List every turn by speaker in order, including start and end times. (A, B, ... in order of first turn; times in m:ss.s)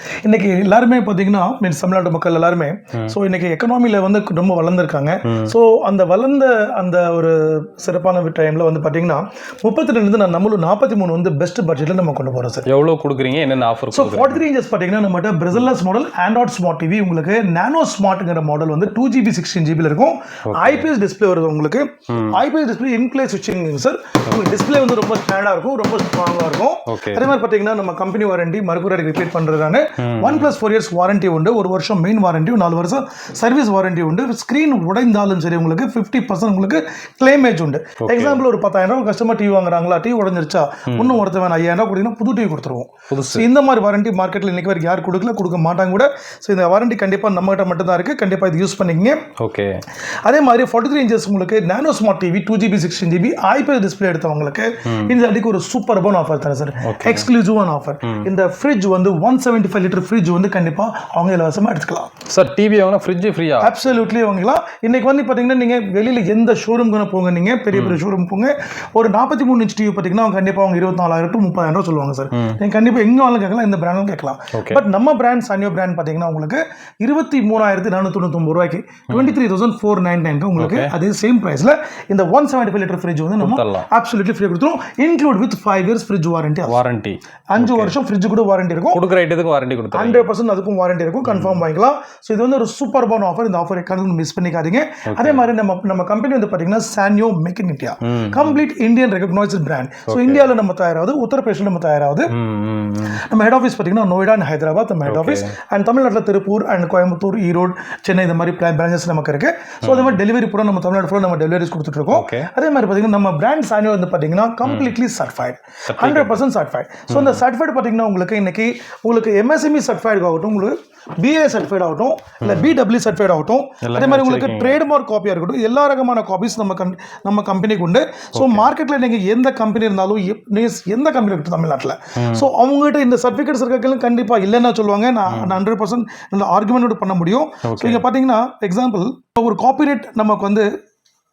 0:00.2-0:12.7 A
0:05.2-0:05.5 B
0:12.6-0:14.4 B
0:13.9-0:49.2 A
0:20.5-0:20.9 B
0:22.1-0:22.4 B
0:26.9-0:27.3 B
0:30.0-0:30.5 B
0:38.0-0:38.4 B
0:40.9-0:41.2 B
0:43.1-0:43.5 B
0:49.4-0:49.8 B
0:50.2-1:02.1 A
0:56.8-0:57.3 B
1:02.3-1:03.7 B
1:03.6-1:26.8 A
1:07.7-1:08.0 B
1:14.5-1:14.8 B
1:19.1-1:19.3 B
1:20.6-1:20.9 B
1:23.4-1:23.9 B
1:26.7-1:27.9 B
1:27.5-1:29.0 A
1:28.9-1:30.3 B
1:29.9-1:42.3 A
1:31.2-1:31.6 B
1:35.1-1:35.4 B
1:38.0-1:38.6 B
1:40.1-1:40.4 B
1:42.3-1:43.2 B
1:43.0-2:20.6 A
1:45.0-1:45.5 B
1:49.8-1:50.2 B
1:52.1-1:52.5 B
1:54.6-1:54.9 B
1:55.9-1:56.4 B
1:57.1-1:57.4 B
2:02.4-2:02.7 B
2:03.8-2:04.8 B
2:08.3-2:08.7 B
2:12.2-2:12.5 B
2:17.6-2:18.0 B